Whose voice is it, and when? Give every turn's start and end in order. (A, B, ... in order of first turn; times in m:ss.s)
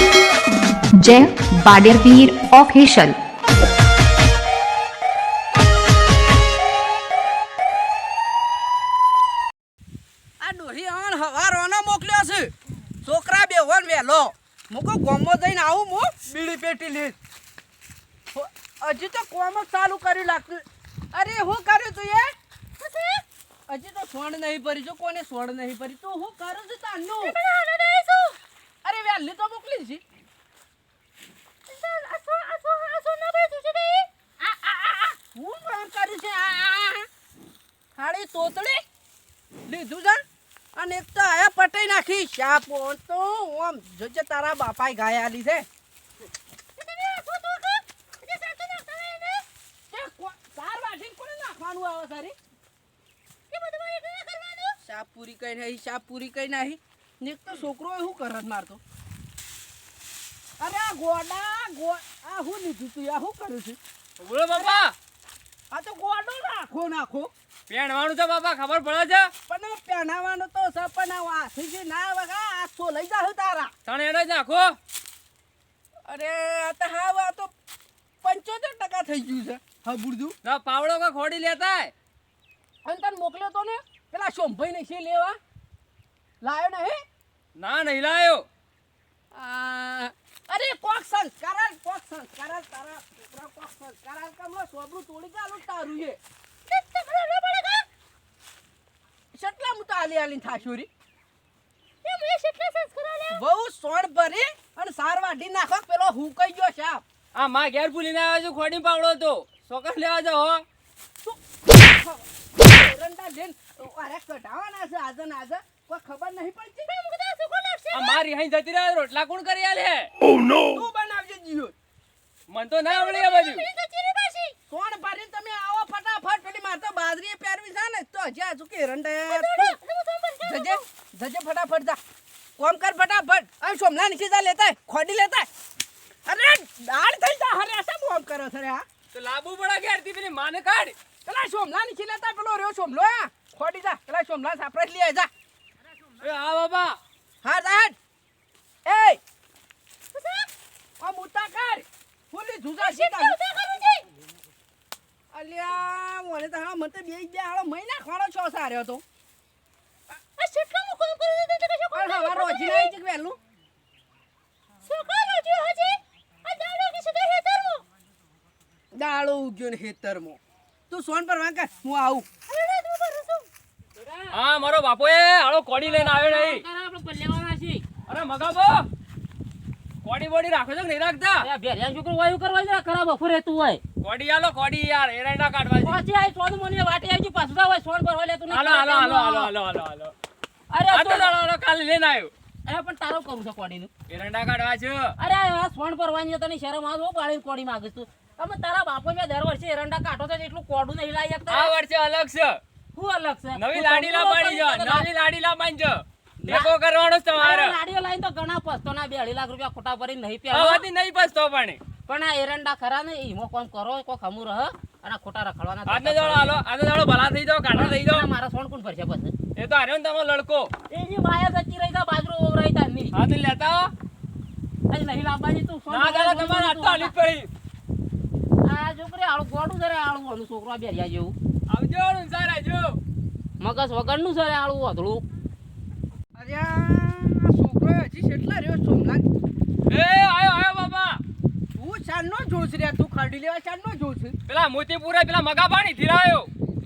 0:01.0-0:03.2 A
0:10.4-0:12.5 B
0:13.0-0:17.2 B
0:18.3-0:22.3 B
0:22.8-0:23.2 C
0:23.7-0:27.4 B
0:27.2-0:28.4 C
0:28.8-0:30.0 B
0:31.7-0:34.1 C
0:34.4-0:37.1 B
0:38.0-0:38.8 B
0:39.7-0:40.2 B
0:40.8-0:45.7 B
0:46.8-0:49.4 C
0:49.9-0:52.3 B
0:53.5-0:54.8 C
0:54.8-0:58.8 B
1:00.6-1:03.8 B
1:04.2-1:04.9 D
1:04.5-1:04.8 B
1:05.7-1:07.3 B
1:07.7-1:09.3 D
1:09.5-1:13.7 B
1:13.9-1:14.8 D
1:16.1-1:17.5 B
1:18.2-1:20.4 B
1:20.4-1:21.9 D
1:22.8-1:25.4 B
1:26.4-1:27.0 B
1:27.6-1:28.5 D
1:29.3-1:36.2 B
1:36.7-1:37.9 C
1:39.3-1:40.9 B
1:42.0-1:43.4 C
1:43.3-1:47.0 B
1:47.4-1:50.6 D
1:51.2-1:57.0 B
1:56.9-1:58.2 C
1:57.9-2:00.1 D
2:00.4-2:01.7 B
2:02.5-2:03.6 D
2:02.9-2:04.6 C
2:04.7-2:09.8 B
2:09.3-2:10.8 C
2:10.4-2:12.0 B
2:12.6-2:15.5 B
2:16.3-2:18.8 B
2:19.1-2:21.0 D
2:21.2-2:25.3 B
2:26.2-2:27.0 D
2:27.4-2:28.0 B
2:28.9-2:29.2 B
2:30.2-2:30.5 C
2:31.0-2:33.4 B
2:32.8-2:34.1 C
2:35.3-2:39.0 B
2:40.2-2:42.9 C
2:41.9-2:43.4 B
2:44.8-2:47.8 C
2:48.9-2:52.3 B
2:52.5-2:53.5 C
2:54.0-2:54.3 C
2:54.3-2:56.6 D
2:55.8-2:57.8 C
2:58.1-2:58.9 D
3:00.0-3:01.5 D
3:01.4-3:03.8 C
3:04.0-3:06.0 D
3:05.8-3:09.5 C
3:08.5-3:10.1 D
3:10.7-3:11.3 C
3:10.9-3:12.3 D
3:12.7-3:13.9 C
3:14.1-3:15.1 D
3:15.2-3:21.8 C
3:21.5-3:22.6 D
3:23.0-3:25.1 C
3:23.6-3:27.8 D
3:26.4-3:26.7 C
3:27.4-3:30.8 C
3:30.5-3:31.8 D
3:32.1-3:36.6 C
3:35.9-3:38.3 D
3:37.7-3:39.3 C
3:39.6-3:40.7 D
3:40.9-3:43.2 C
3:43.1-3:43.9 D
3:44.9-3:47.1 C
3:45.9-3:47.5 D
3:48.6-3:51.4 C
3:51.7-3:53.0 D
3:53.6-3:55.3 C
3:56.4-3:59.2 B
3:59.9-4:01.2 D
4:01.8-4:04.4 B
4:04.5-4:06.5 D